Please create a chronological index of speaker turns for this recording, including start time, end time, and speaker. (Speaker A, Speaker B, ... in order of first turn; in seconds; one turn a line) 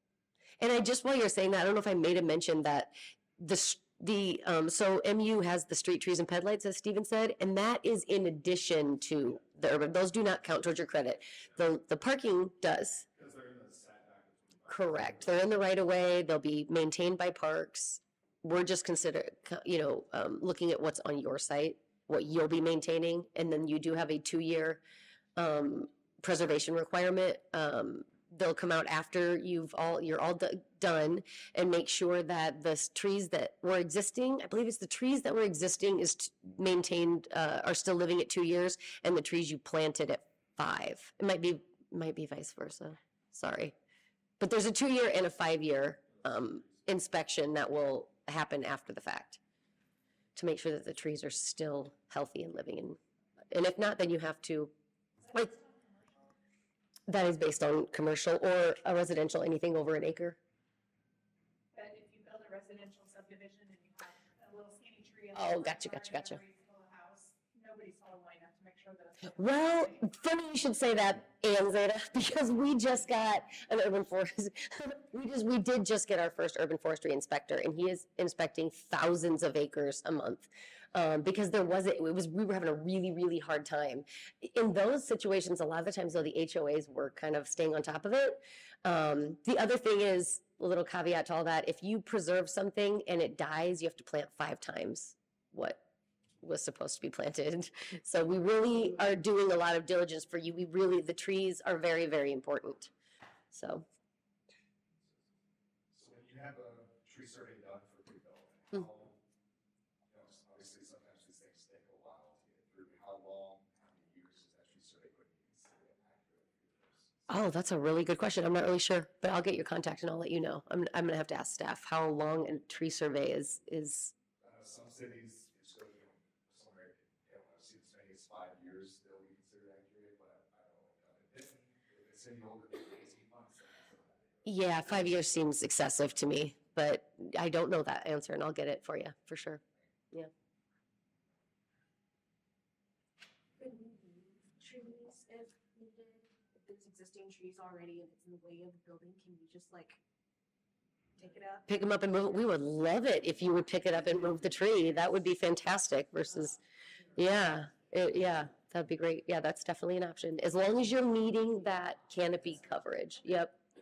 Speaker A: 0.6-13.1
Speaker B: 13.1-15.4
Speaker A: 14.7-24.8
Speaker A: 25.4-43.7
Speaker A: 44.4-49.4
Speaker B: 46.2-46.8
Speaker A: 50.4-53.0
Speaker A: 53.5-54.7
Speaker C: 55.2-56.2
Speaker A: 57.1-60.4
Speaker C: 61.7-70.0
Speaker A: 65.3-66.4
Speaker A: 69.3-95.8
Speaker A: 96.4-102.9
Speaker A: 103.5-103.8
Speaker B: 105.9-109.2
Speaker B: 110.1-117.2
Speaker A: 117.3-124.1
Speaker B: 124.4-134.4
Speaker A: 134.4-140.3
Speaker D: 143.6-150.0
Speaker D: 151.2-151.7
Speaker A: 151.7-156.6
Speaker A: 157.1-163.6